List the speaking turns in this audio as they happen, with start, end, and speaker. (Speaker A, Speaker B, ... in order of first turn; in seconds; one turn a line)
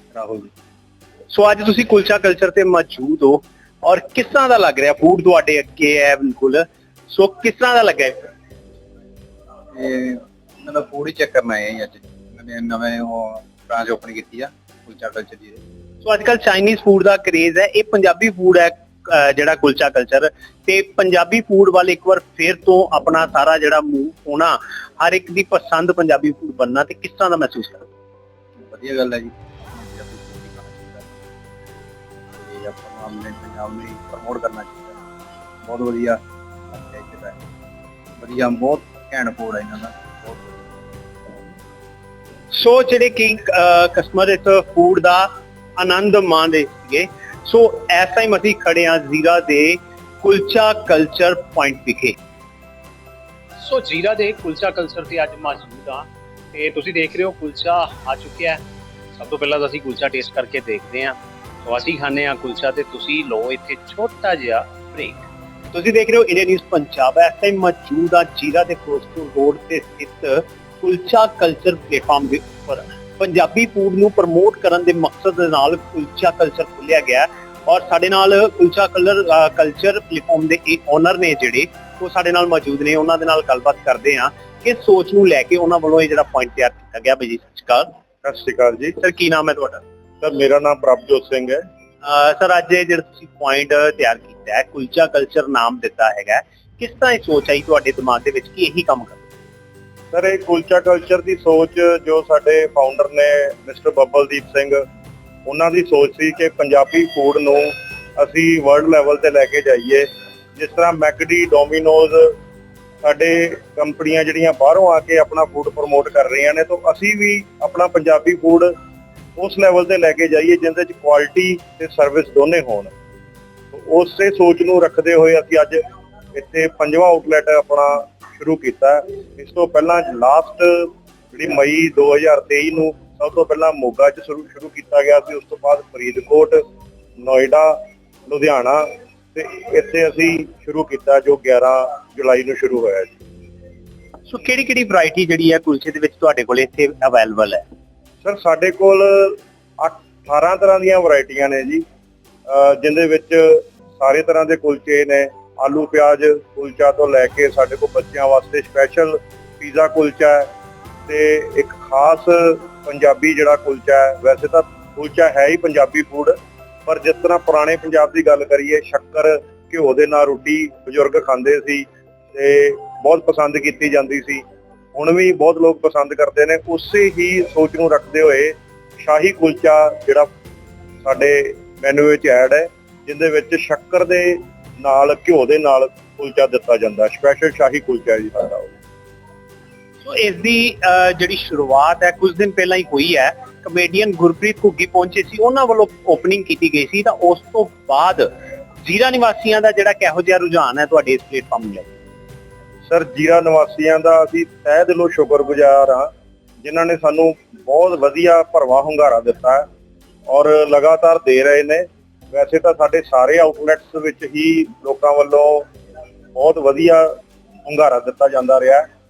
Speaker A: 0.2-0.4
Speaker A: 1.3-8.2
Speaker B: 9.7-15.6
Speaker A: 16.0-27.9
Speaker B: 28.7-31.1
Speaker B: 32.4-35.0
Speaker B: 35.6-37.4
Speaker B: 38.2-40.8
Speaker A: 42.5-52.2
Speaker A: 53.6-58.6
Speaker A: 59.2-65.2
Speaker A: 65.7-87.9
Speaker C: 88.2-89.0
Speaker A: 89.0-89.8
Speaker C: 90.2-91.6
Speaker A: 92.0-99.2
Speaker C: 100.1-104.8
Speaker C: 105.5-110.1
Speaker C: 110.6-112.4
Speaker C: 113.0-118.7
Speaker C: 119.4-122.9
Speaker C: 123.7-125.8
Speaker C: 126.3-136.6
Speaker C: 137.2-137.8
Speaker C: 138.3-143.2
Speaker A: 144.3-147.6
Speaker C: 148.2-151.8
Speaker C: 152.5-160.5
Speaker C: 161.1-174.4
Speaker C: 174.9-180.3
Speaker C: 181.0-188.7
Speaker A: 190.0-198.3
Speaker A: 198.8-201.9
Speaker C: 202.9-206.1
Speaker C: 206.6-209.7
Speaker C: 210.3-215.7
Speaker C: 216.3-217.1
Speaker C: 217.7-218.8